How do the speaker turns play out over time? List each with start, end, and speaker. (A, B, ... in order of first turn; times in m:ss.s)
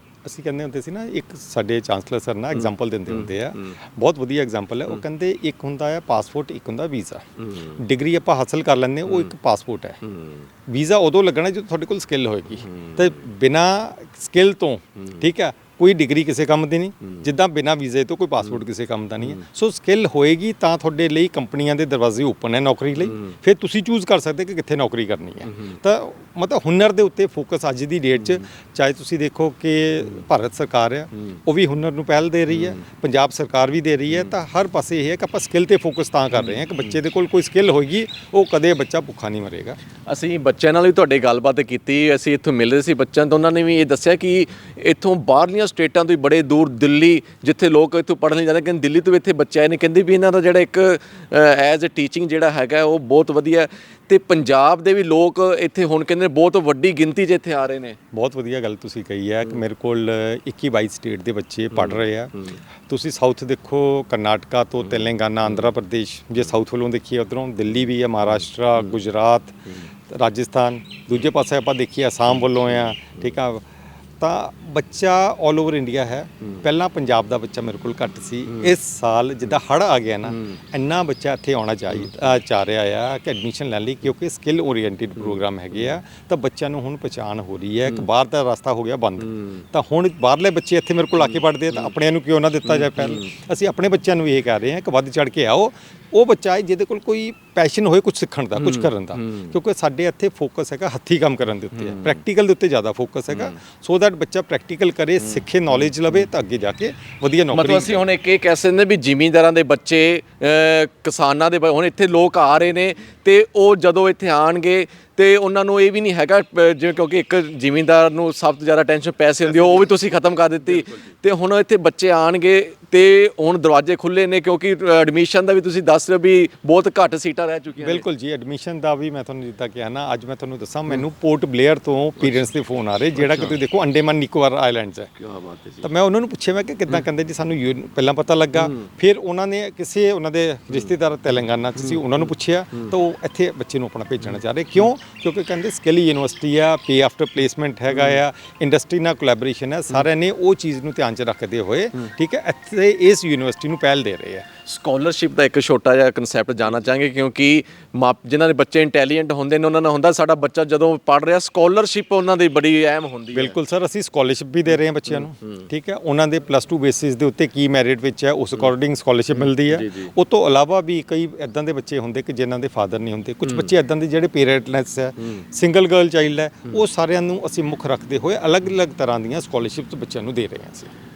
0:00.2-0:10.0 A
0:10.7-0:39.8 A
0:40.1-0:58.0 B
0:58.1-1:02.3 A
1:02.9-1:09.6 A
1:10.1-1:13.6 A
1:14.2-1:48.0 A
1:29.4-1:29.6 B
1:32.8-1:33.2 B
1:38.6-1:39.5 B
1:41.8-1:42.1 B
1:47.5-2:08.0 B
2:07.8-2:15.1 A
2:13.2-2:13.6 B
2:15.2-2:15.8 B
2:15.8-2:34.4 A
2:34.7-2:43.6 B
2:43.3-3:00.9 A
2:49.4-2:50.1 B